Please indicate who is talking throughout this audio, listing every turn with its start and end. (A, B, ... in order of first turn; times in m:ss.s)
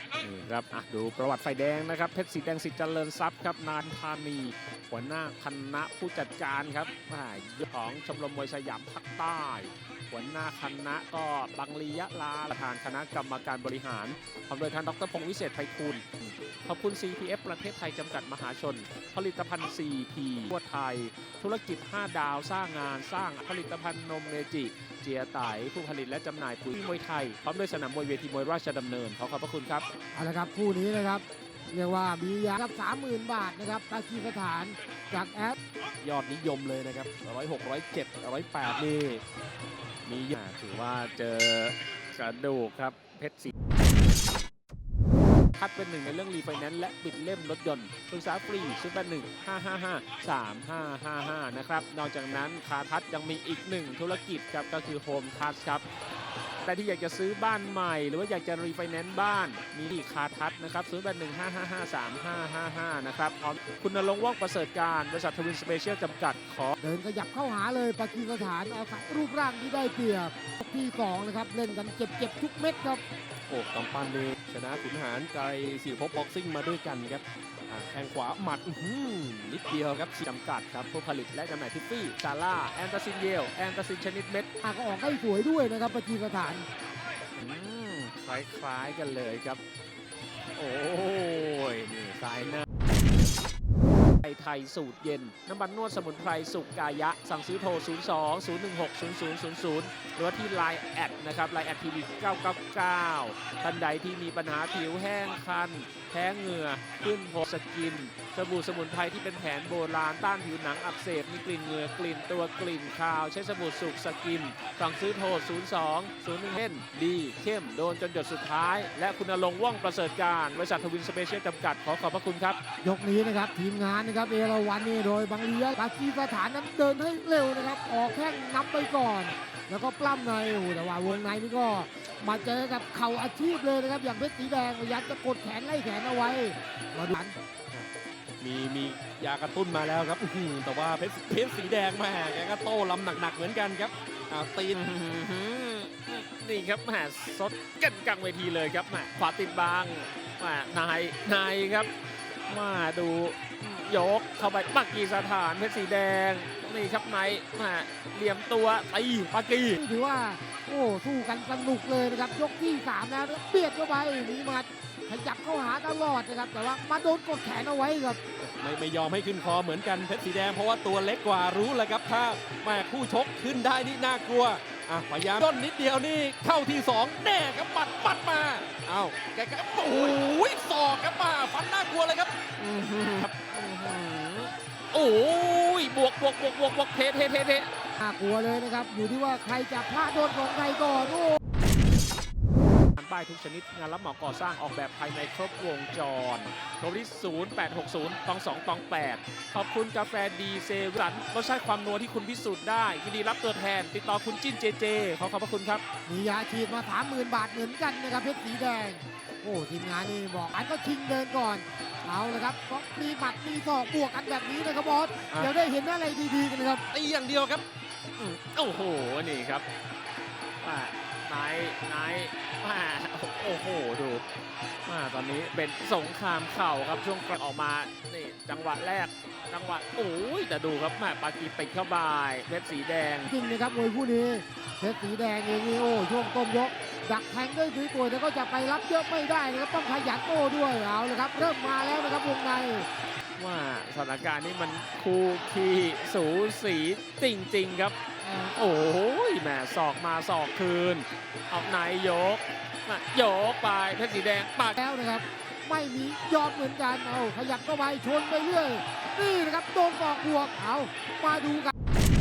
0:00.2-0:29.9 A
0:30.1-0:35.6 B
0:36.0-0:39.2 C
0:40.1-0:40.3 C
0:40.3-0:43.5 A
0:45.6-0:55.8 A
0:56.6-1:06.8 A
1:06.8-1:13.0 B
1:13.5-1:20.2 C
1:20.2-1:24.5 A
1:24.6-1:26.6 B
1:27.4-1:29.6 A
1:30.6-1:32.6 A
1:34.2-2:02.6 A
2:02.8-2:17.4 B
2:18.4-2:24.8 C
2:24.7-2:31.9 A
2:32.5-2:39.8 A
2:39.8-2:48.2 B
2:48.4-3:02.4 C
3:02.6-3:07.7 A
3:08.0-3:11.4 B
3:13.0-3:25.8 A
3:26.1-3:36.9 B
3:36.9-3:37.6 C
3:38.2-3:39.6 A
3:40.6-3:44.2 A
3:44.9-3:53.3 A
3:53.3-4:02.9 B
4:03.4-4:14.8 A
4:08.2-4:08.5 B
4:14.8-4:21.7 B